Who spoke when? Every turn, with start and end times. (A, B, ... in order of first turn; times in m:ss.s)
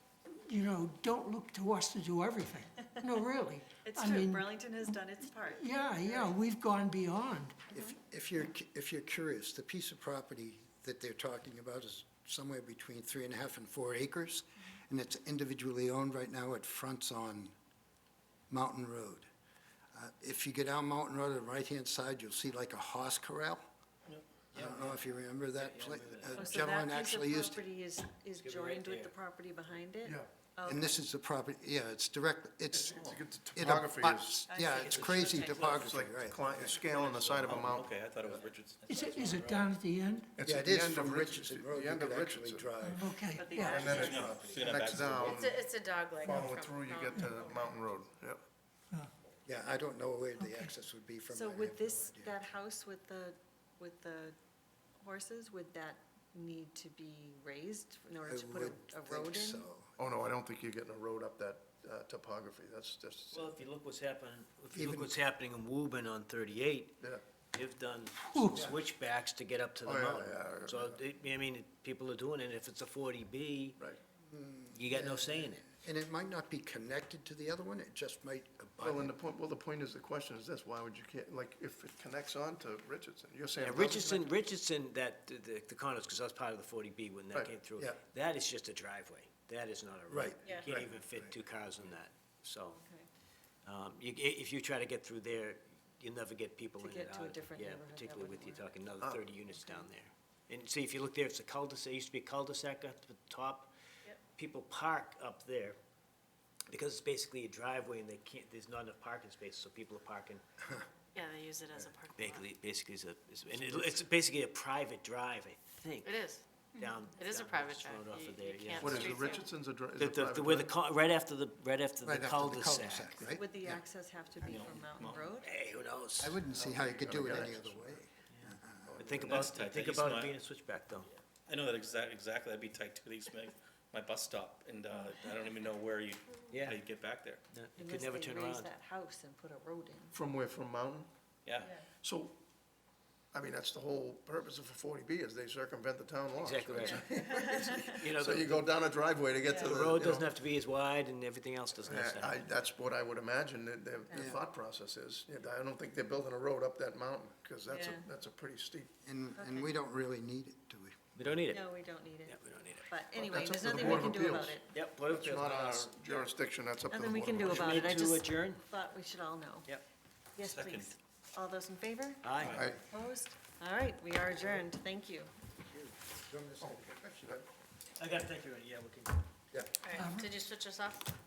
0:00.5-0:04.6 A
0:03.8-0:06.3 B
0:05.4-0:07.6 A
0:07.7-0:17.6 C
0:18.5-0:19.3 C
0:19.9-0:23.6 C
0:24.1-0:26.6 D
0:24.5-0:27.6 C
0:26.4-0:31.0 B
0:28.4-0:29.1 D
0:30.7-0:36.7 C
0:32.7-0:34.5 E
0:34.5-0:35.9 B
0:34.7-0:35.9 D
0:35.7-0:38.4 E
0:36.5-0:39.7 D
0:37.5-0:38.8 F
0:38.9-0:40.3 A
0:40.4-0:42.7 E
0:40.4-0:43.2 C
0:42.8-0:44.0 A
0:43.4-0:44.7 B
0:43.6-0:45.7 E
0:43.9-0:45.5 F
0:45.3-0:47.8 G
0:46.2-0:48.4 E
0:49.5-0:52.4 C
0:50.4-0:50.7 A
0:51.3-0:54.4 B
0:55.0-0:59.7 B
0:58.2-1:00.0 C
1:00.0-1:03.6 E
1:03.3-1:13.8 D
1:04.7-1:05.2 C
1:08.3-1:08.7 A
1:08.5-1:08.8 C
1:09.8-1:10.9 E
1:14.2-1:19.2 C
1:14.7-1:15.7 D
1:18.8-1:24.4 E
1:23.6-1:32.8 D
1:30.1-1:30.9 C
1:32.7-1:33.1 B
1:33.6-1:43.7 D
1:36.8-1:38.7 B
1:39.0-1:39.3 E
1:39.4-1:39.9 B
1:44.3-1:45.8 D
1:46.7-1:50.4 D
1:51.2-1:52.5 G
1:52.2-1:59.4 D
1:56.0-1:56.4 G
1:57.2-1:59.5 G
1:58.8-2:00.7 E
2:00.0-2:03.4 D
2:02.0-2:03.8 C
2:03.3-2:05.5 B
2:04.4-2:05.3 F
2:05.4-2:07.4 D
2:06.2-2:09.0 C
2:06.5-2:08.0 E
2:08.3-2:11.1 D
2:08.8-2:09.6 E
2:09.2-2:10.4 F
2:11.5-2:17.4 F
2:16.5-2:16.8 D
2:17.5-2:18.7 D
2:17.8-2:20.2 B
2:20.1-2:21.1 E
2:21.5-2:21.8 F
2:21.9-2:22.3 E
2:23.3-2:30.3 E
2:26.4-2:27.1 D
2:26.8-2:28.0 B
2:28.0-2:28.6 D
2:29.5-2:29.8 B
2:29.5-2:32.5 D
2:31.8-2:38.9 E
2:34.1-2:34.4 B
2:37.7-2:38.1 B
2:39.0-2:41.0 C
2:39.4-2:39.7 B
2:41.2-2:41.7 D
2:41.5-2:44.7 B
2:42.3-2:42.9 D
2:43.2-2:48.1 E
2:44.7-2:46.2 D
2:46.9-2:49.7 B
2:47.4-2:48.6 D
2:50.4-2:55.3 B
2:50.4-2:51.0 F
2:52.2-2:52.7 D
2:52.4-2:52.7 F
2:52.5-2:52.8 E
2:55.6-2:56.9 C
2:56.6-2:57.5 E
2:58.0-2:59.2 D
2:59.8-3:01.1 G
2:59.9-3:00.4 A